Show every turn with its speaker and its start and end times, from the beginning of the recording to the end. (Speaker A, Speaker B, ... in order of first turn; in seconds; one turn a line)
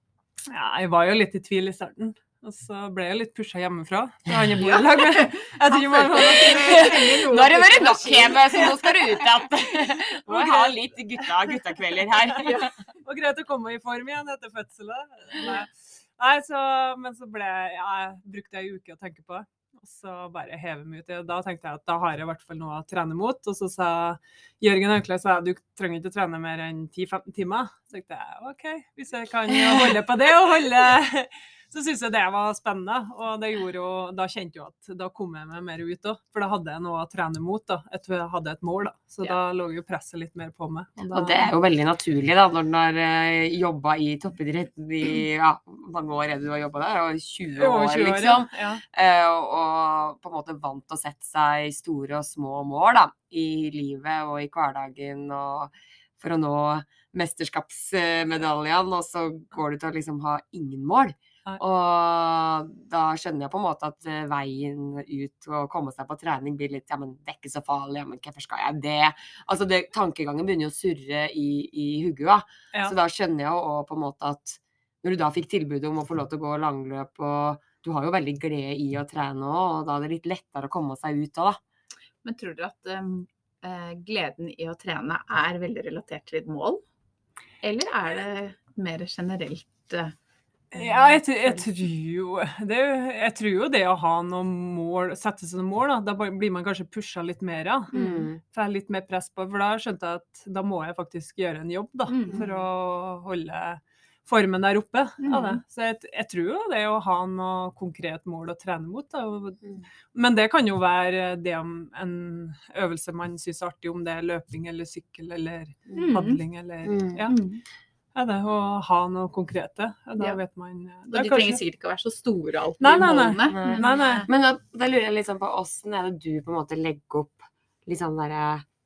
Speaker A: 0.5-7.3
Speaker B: 4.6-8.8
Speaker C: 6.5-12.7
Speaker A: 8.5-8.8
Speaker A: 10.3-10.8
Speaker B: 12.4-12.8
Speaker A: 13.0-41.5
Speaker C: 41.1-81.6
Speaker A: 47.6-48.8
Speaker B: 82.2-86.8
Speaker B: 87.6-90.1
Speaker A: 90.7-117.4
Speaker B: 90.7-91.8
Speaker B: 97.9-98.3
Speaker C: 97.9-98.4
Speaker B: 102.1-102.5
Speaker C: 102.3-102.6
Speaker B: 105.2-105.6
Speaker B: 116.0-116.4
Speaker C: 116.8-117.3
Speaker B: 117.3-117.6
Speaker A: 118.2-121.6
Speaker B: 121.1-124.2
Speaker A: 122.8-124.2
Speaker C: 123.5-128.6